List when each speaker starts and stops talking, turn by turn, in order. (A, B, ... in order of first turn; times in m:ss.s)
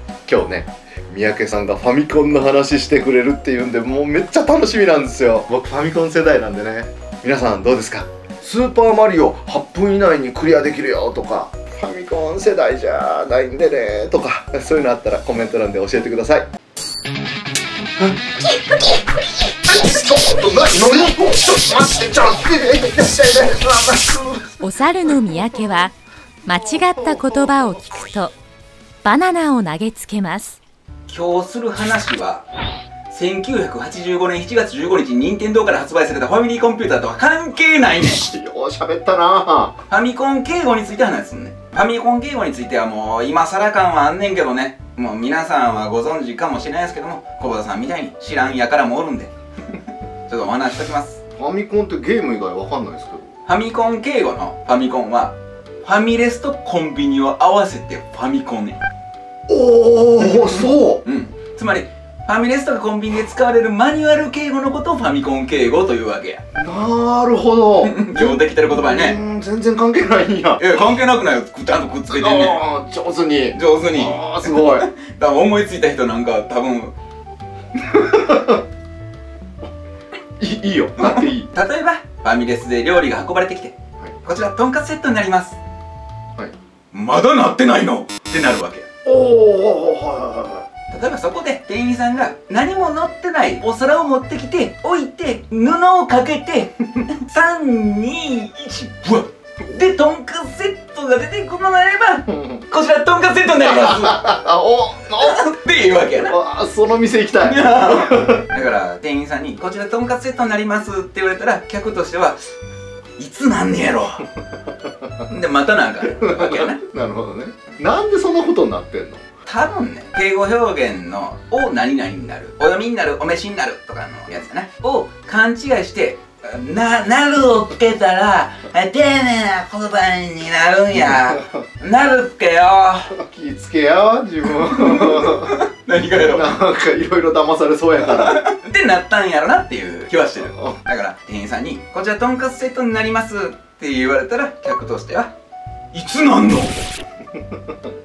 0:00.2-0:16.5 A
0:19.6-0:24.6 A
0:24.6-0:25.9 B
0:26.4-0:28.3 B
0:29.0-0:30.6 B
0:31.1-0:32.4 C
0:33.1-0:38.2 C
0:38.1-0:39.8 A
0:39.9-0:49.3 C
0:50.3-0:51.2 C
0:51.4-0:53.3 A
0:53.4-0:58.8 C
0:59.5-1:01.0 A
1:00.3-1:06.4 C
1:06.6-1:10.7 A
1:07.8-1:09.2 C
1:10.6-1:12.6 C
1:12.1-1:14.9 A
1:13.5-1:16.9 C
1:17.9-1:18.6 A
1:20.4-1:21.5 A
1:21.0-1:25.6 C
1:26.9-1:28.9 C
1:29.0-1:30.6 A
1:30.9-1:44.3 C
1:42.3-1:42.6 A
1:43.6-1:45.5 A
1:45.1-1:46.4 C
1:46.1-1:48.5 A
1:47.4-1:52.4 C
1:53.2-1:54.3 C
1:54.7-1:55.2 A
1:55.3-1:56.8 C
1:56.1-1:59.2 A
1:59.4-2:13.2 C
2:10.9-2:11.6 A
2:13.1-2:15.6 A
2:14.4-2:16.6 C
2:16.2-2:18.4 A
2:18.0-2:25.3 C
2:20.4-2:20.8 A
2:25.9-2:26.8 C
2:27.3-2:27.7 A